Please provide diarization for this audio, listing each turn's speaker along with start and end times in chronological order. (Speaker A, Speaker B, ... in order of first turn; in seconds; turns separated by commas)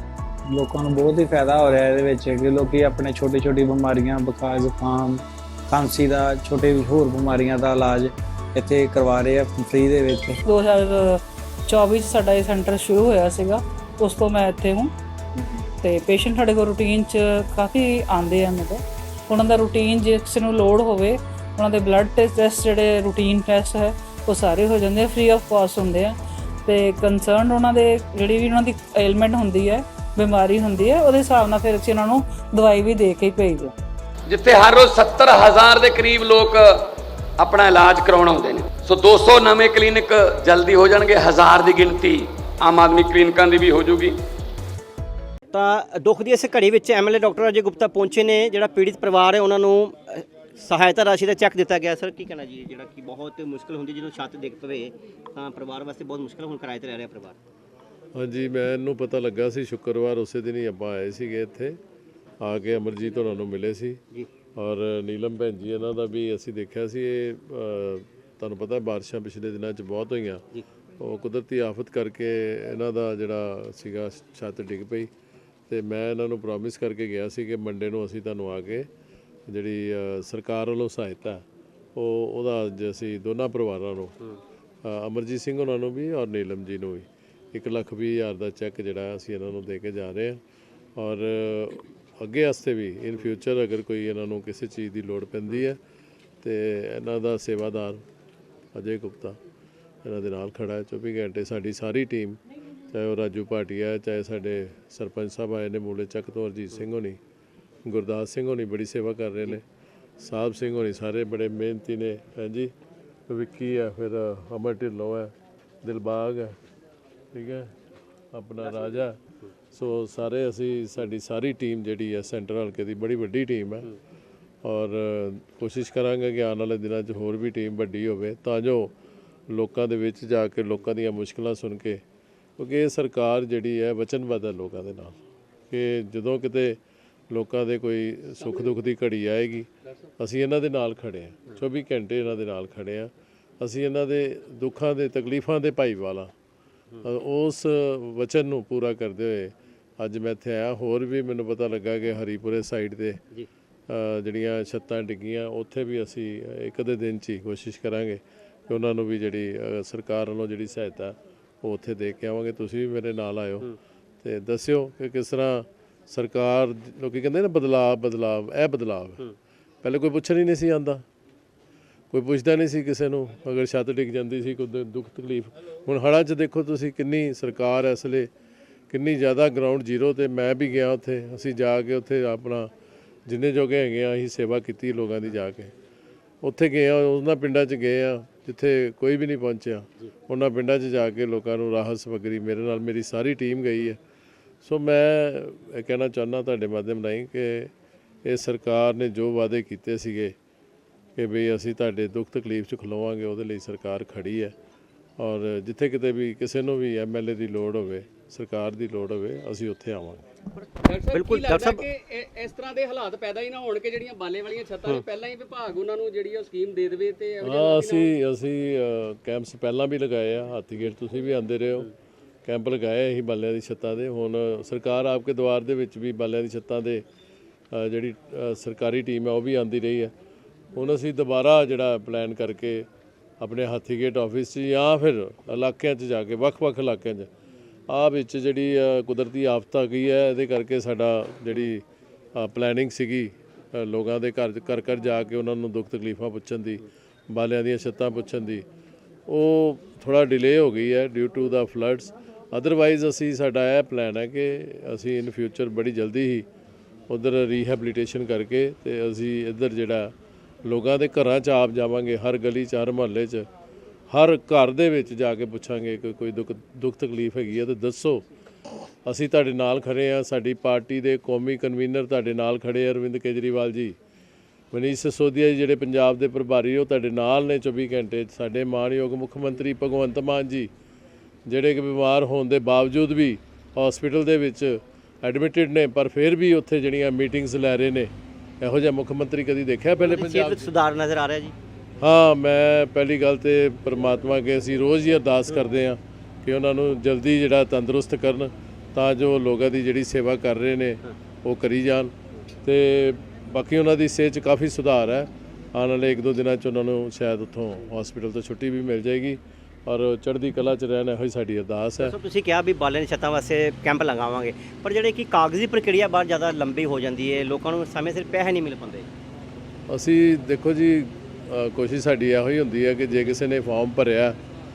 Speaker A: 0.5-10.4, Speaker B: 10.5-14.9, Speaker B: 15.6-33.7, Speaker C: 34.3-36.8, Speaker C: 37.4-44.2, Speaker D: 45.5-57.4, Speaker E: 58.1-61.8, Speaker E: 62.4-64.0, Speaker E: 64.5-70.5, Speaker E: 71.0-75.1, Speaker E: 75.7-78.9, Speaker E: 79.5-81.4, Speaker E: 81.9-84.2, Speaker E: 84.8-90.4, Speaker E: 91.0-95.8, Speaker E: 96.4-98.0, Speaker E: 98.7-99.4, Speaker E: 100.0-102.4, Speaker E: 102.9-107.2, Speaker E: 107.8-109.6, Speaker E: 110.2-112.7, Speaker E: 113.3-115.3, Speaker E: 115.8-116.5, Speaker E: 117.3-117.7, Speaker E: 118.3-119.2, Speaker E: 119.7-123.9, Speaker E: 124.6-128.9, Speaker E: 129.5-132.0, Speaker E: 132.6-135.2, Speaker E: 135.7-136.8, Speaker E: 137.3-139.7, Speaker E: 140.2-146.3, Speaker E: 147.0-153.2, Speaker E: 153.9-163.7, Speaker E: 164.2-169.2, Speaker E: 169.8-171.0, Speaker E: 172.1-178.3, Speaker E: 178.9-182.7, Speaker E: 183.2-185.7, Speaker E: 186.4-194.0, Speaker E: 194.6-197.7, Speaker E: 198.2-200.3, Speaker E: 201.2-204.5, Speaker E: 205.2-210.2, Speaker F: 210.8-218.1, Speaker D: 211.1-211.8, Speaker E: 217.4-221.9, Speaker E: 222.4-227.0, Speaker E: 227.7-230.1, Speaker E: 230.7-232.9, Speaker E: 233.4-237.3, Speaker E: 237.9-241.8, Speaker E: 242.3-248.6, Speaker E: 249.3-256.4, Speaker E: 257.1-260.1, Speaker E: 260.6-263.5, Speaker E: 264.1-268.2, Speaker E: 269.0-273.9, Speaker E: 274.7-280.7, Speaker E: 281.4-290.7, Speaker D: 290.0-291.5, Speaker E: 292.0-302.1, Speaker E: 302.6-312.1, Speaker D: 312.0-319.1, Speaker E: 319.9-324.4